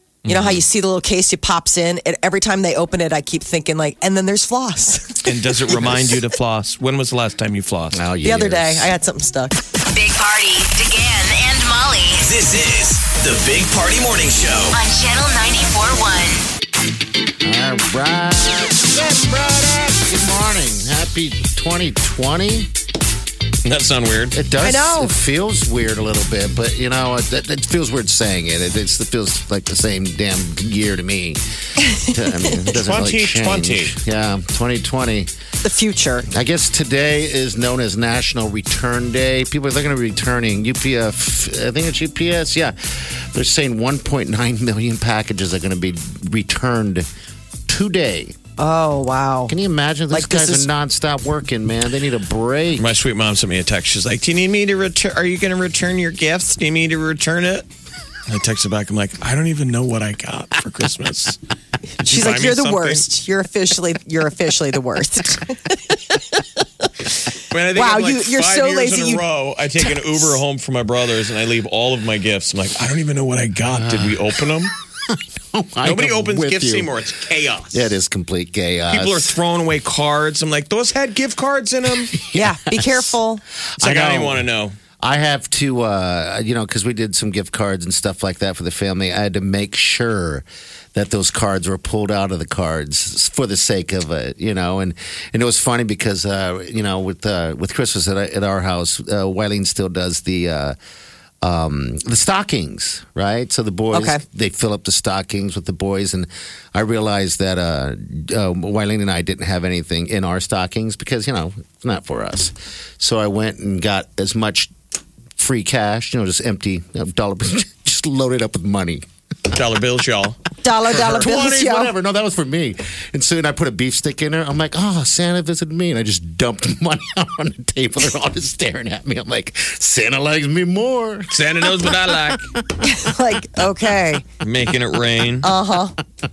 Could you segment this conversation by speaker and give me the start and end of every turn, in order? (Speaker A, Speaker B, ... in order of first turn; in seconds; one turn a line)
Speaker A: 0.3-0.6
Speaker B: 0.3-5.2
Speaker C: 5.2-8.0
Speaker A: 7.9-8.9
Speaker B: 8.2-9.6
Speaker D: 9.9-12.2
Speaker E: 12.2-14.8
Speaker D: 14.7-16.5
Speaker A: 17.4-22.7
Speaker C: 23.6-24.4
Speaker A: 24.3-31.4
Speaker B: 24.6-25.1
Speaker B: 31.8-32.5
Speaker A: 32.0-35.3
Speaker C: 32.7-34.0
Speaker B: 35.6-36.2
Speaker A: 36.2-47.1
Speaker A: 47.7-48.4
Speaker B: 48.6-49.5
Speaker A: 49.5-52.9
Speaker B: 50.1-50.7
Speaker C: 52.8-57.7
Speaker C: 58.3-61.4
Speaker B: 62.0-66.4
Speaker C: 62.0-63.1
Speaker C: 67.5-74.7
Speaker B: 67.7-69.2
Speaker B: 69.8-70.4
Speaker A: 73.8-74.2
Speaker A: 75.1-76.9
Speaker C: 75.8-77.8
Speaker A: 77.7-79.3
Speaker C: 78.9-82.2
Speaker A: 82.2-82.9
Speaker B: 82.3-83.4
Speaker A: 83.8-84.4
Speaker C: 83.8-84.8
Speaker A: 85.0-100.8
Speaker A: 101.4-114.7
Speaker B: 103.9-104.2
Speaker A: 115.4-119.0
Speaker C: 119.5-120.4
Speaker B: 120.6-121.9
Speaker A: 120.9-133.8
Speaker C: 131.3-132.5
Speaker B: 132.8-134.2
Speaker C: 134.4-135.5
Speaker B: 135.4-136.0